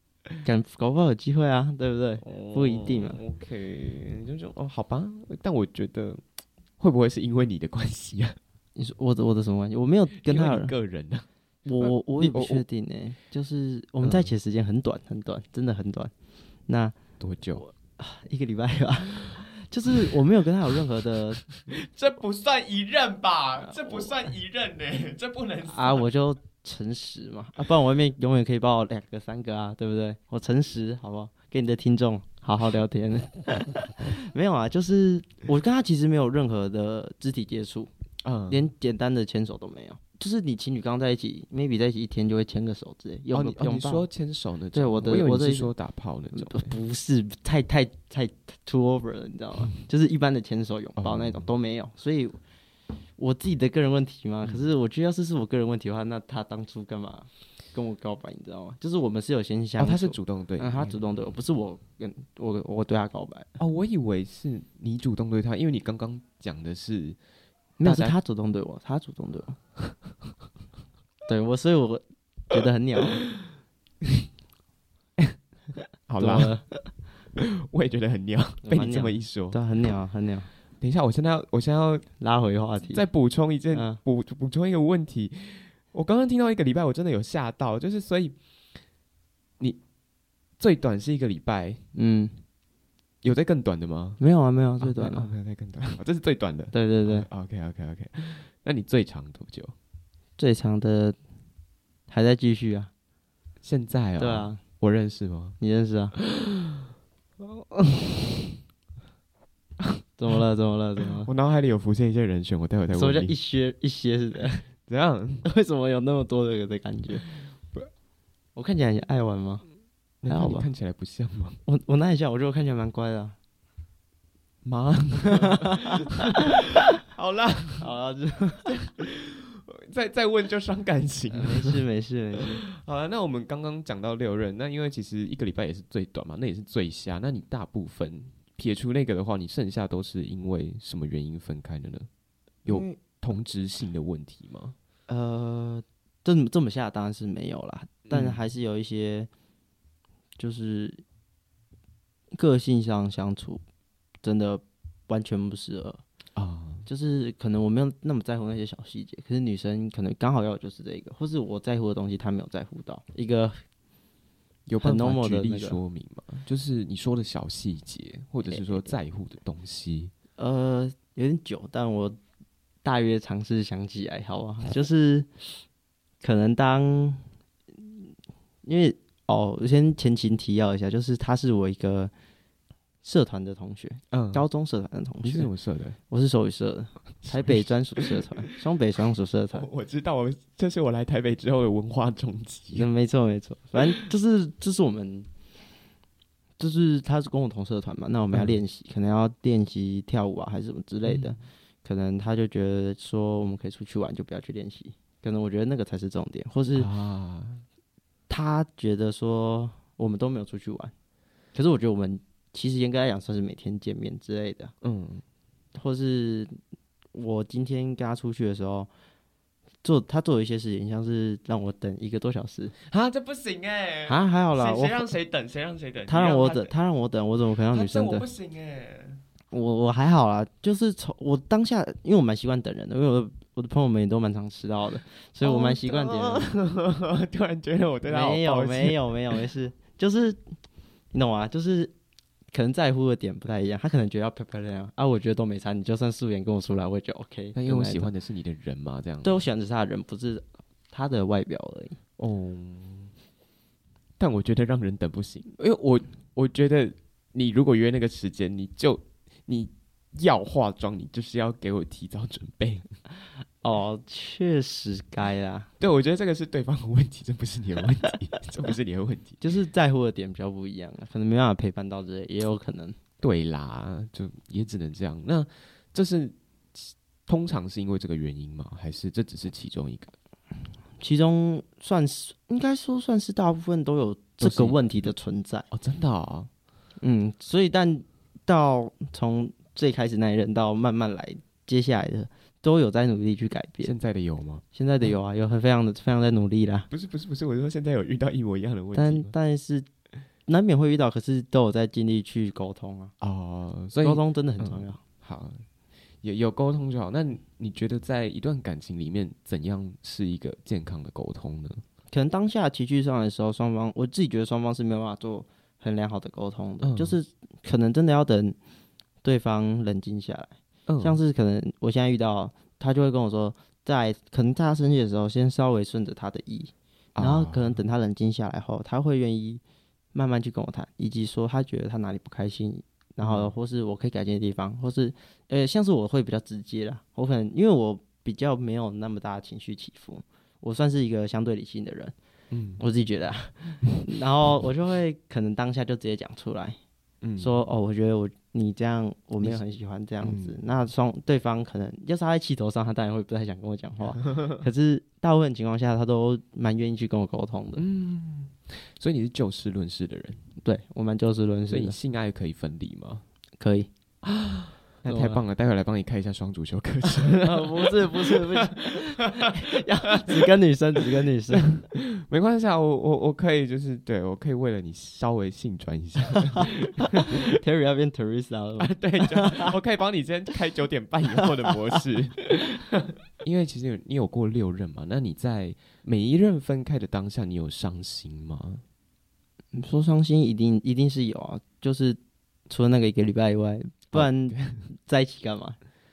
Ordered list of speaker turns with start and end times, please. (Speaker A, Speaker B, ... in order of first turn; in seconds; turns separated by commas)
Speaker A: 0.4-3.2, Speaker B: 2.2-6.2, Speaker B: 6.8-8.4, Speaker A: 8.8-10.7, Speaker B: 10.2-11.3, Speaker A: 11.7-16.1, Speaker B: 11.8-12.6, Speaker B: 14.0-14.3, Speaker A: 16.7-16.9, Speaker B: 17.2-17.6, Speaker A: 17.6-21.4, Speaker B: 21.5-26.1, Speaker A: 23.7-24.1, Speaker A: 25.7-37.9, Speaker B: 38.2-38.7, Speaker A: 38.5-44.1, Speaker B: 43.3-46.7, Speaker A: 44.7-45.7, Speaker A: 46.3-52.4, Speaker B: 51.0-51.5, Speaker A: 53.2-63.5, Speaker B: 59.8-61.0, Speaker B: 63.6-67.2, Speaker A: 67.8-69.6, Speaker B: 67.8-68.1, Speaker A: 71.3-73.2, Speaker B: 76.1-76.5, Speaker A: 76.2-76.8, Speaker B: 77.3-79.6, Speaker A: 78.6-80.5, Speaker B: 80.8-82.0, Speaker A: 82.2-83.0, Speaker B: 82.9-88.3, Speaker A: 83.7-84.0, Speaker B: 90.6-91.8, Speaker A: 91.9-92.4, Speaker B: 93.2-94.2, Speaker A: 94.2-95.3, Speaker B: 94.8-99.7, Speaker A: 96.7-97.3, Speaker A: 100.4-101.2, Speaker A: 102.1-102.9, Speaker B: 103.6-105.6, Speaker A: 104.2-104.6, Speaker A: 105.6-106.1, Speaker B: 106.2-106.8, Speaker B: 107.4-108.5, Speaker A: 110.2-111.3, Speaker B: 111.2-113.3, Speaker A: 112.9-114.6, Speaker B: 114.9-115.5, Speaker A: 115.4-117.3, Speaker A: 118.5-119.6, Speaker B: 120.2-121.6, Speaker A: 120.3-120.7, Speaker A: 121.7-123.3, Speaker B: 124.6-127.9, Speaker A: 125.2-126.2, Speaker A: 127.8-128.7, Speaker B: 128.7-131.8, Speaker A: 131.3-132.6, Speaker B: 132.6-142.1, Speaker B: 142.6-144.7, Speaker A: 142.7-143.0, Speaker A: 145.1-149.3, Speaker B: 148.1-148.4, Speaker A: 150.4-151.0, Speaker A: 152.3-153.6, Speaker A: 154.2-156.0, Speaker B: 156.3-156.9, Speaker A: 156.8-163.6, Speaker B: 164.7-170.1, Speaker A: 164.8-165.8, Speaker A: 168.5-168.8, Speaker A: 170.4-172.2, Speaker A: 172.8-175.3, Speaker A: 176.2-177.2, Speaker A: 177.8-178.1, Speaker A: 178.6-182.1, Speaker A: 183.0-185.5, Speaker B: 184.1-184.4, Speaker B: 185.2-186.0, Speaker A: 186.1-189.7, Speaker B: 187.2-188.1, Speaker B: 189.5-192.9, Speaker A: 192.7-195.3, Speaker A: 196.6-206.9, Speaker B: 201.1-201.4, Speaker B: 206.8-207.6, Speaker A: 208.3-210.9, Speaker A: 211.5-214.7, Speaker B: 214.8-215.2, Speaker A: 215.7-216.6, Speaker A: 217.1-218.9, Speaker A: 219.8-222.7, Speaker B: 222.8-226.7, Speaker A: 224.1-225.1, Speaker A: 226.1-228.2, Speaker B: 227.7-229.2, Speaker A: 229.5-236.5, Speaker B: 235.4-239.4, Speaker A: 238.0-240.4, Speaker A: 241.1-241.9, Speaker A: 242.5-248.1, Speaker B: 247.5-249.4, Speaker A: 249.2-252.0, Speaker B: 252.2-253.1, Speaker B: 254.2-262.9, Speaker A: 263.6-265.7, Speaker B: 265.8-269.4, Speaker A: 269.4-272.9, Speaker B: 273.2-280.1, Speaker A: 281.0-285.7, Speaker B: 284.4-285.1, Speaker B: 285.7-286.5, Speaker A: 287.0-293.9, Speaker B: 293.8-294.6, Speaker A: 294.7-296.9, Speaker B: 296.9-299.3, Speaker A: 298.9-299.9, Speaker A: 300.5-303.1, Speaker B: 303.2-305.6, Speaker A: 304.0-305.0, Speaker B: 306.2-311.8, Speaker A: 312.1-318.6, Speaker B: 316.8-317.1, Speaker A: 319.2-329.6, Speaker B: 320.9-321.2, Speaker B: 327.1-327.8, Speaker A: 330.1-342.1, Speaker B: 333.2-333.5, Speaker B: 342.5-342.8, Speaker A: 342.8-346.8, Speaker B: 347.2-347.6, Speaker A: 347.4-357.8, Speaker B: 350.2-350.6, Speaker B: 357.8-360.4, Speaker A: 360.6-361.9, Speaker B: 361.7-363.2, Speaker A: 363.6-363.9, Speaker B: 364.2-370.5, Speaker A: 365.1-365.4, Speaker A: 367.3-371.7, Speaker B: 371.5-377.6, Speaker A: 377.1-379.7, Speaker B: 378.8-388.8, Speaker A: 389.7-392.2, Speaker A: 392.7-395.8, Speaker B: 394.1-394.8